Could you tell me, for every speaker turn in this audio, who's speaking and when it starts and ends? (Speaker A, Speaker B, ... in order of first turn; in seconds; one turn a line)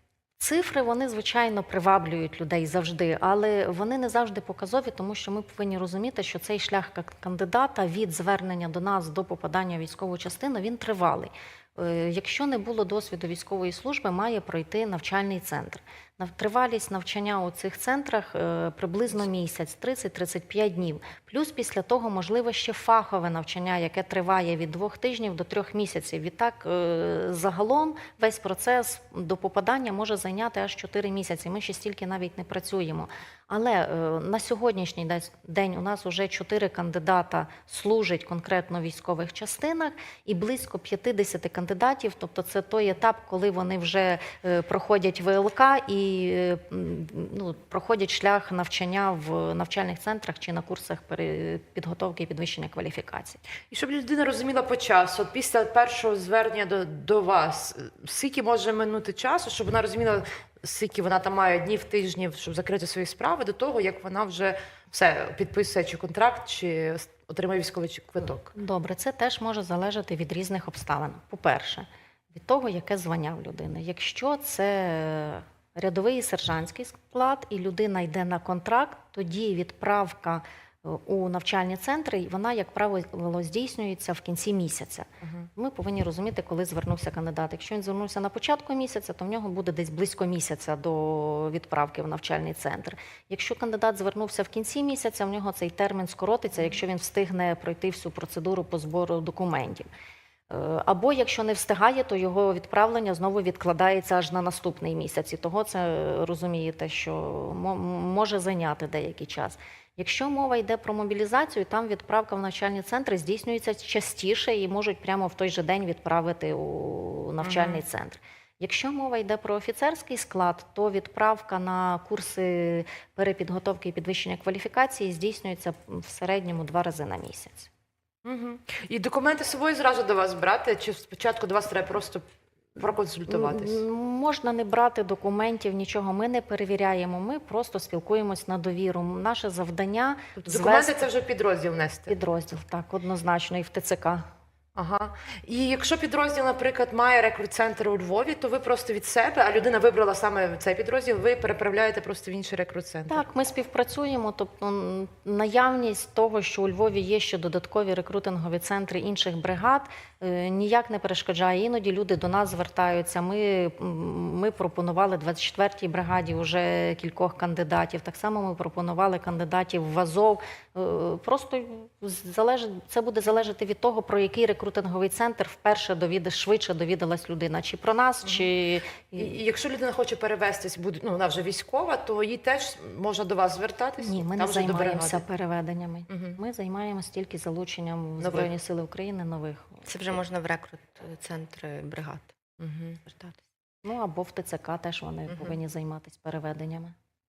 Speaker A: 0.4-53.4
Speaker B: 53.7-68.5
Speaker A: 68.5-99.9
Speaker B: 85.2-85.5
Speaker A: 100.5-127.7
Speaker B: 117.4-117.8
Speaker B: 128.2-132.2
Speaker B: 132.8-133.8
Speaker A: 133.3-141.1
Speaker B: 140.4-142.1
Speaker A: 142.1-144.3
Speaker B: 144.8-153.2
Speaker A: 153.1-179.3
Speaker B: 179.2-185.2
Speaker A: 184.0-189.8
Speaker B: 188.2-188.5
Speaker C: 189.8-192.3
Speaker B: 192.6-193.0
Speaker C: 193.0-193.4
Speaker A: 193.8-196.9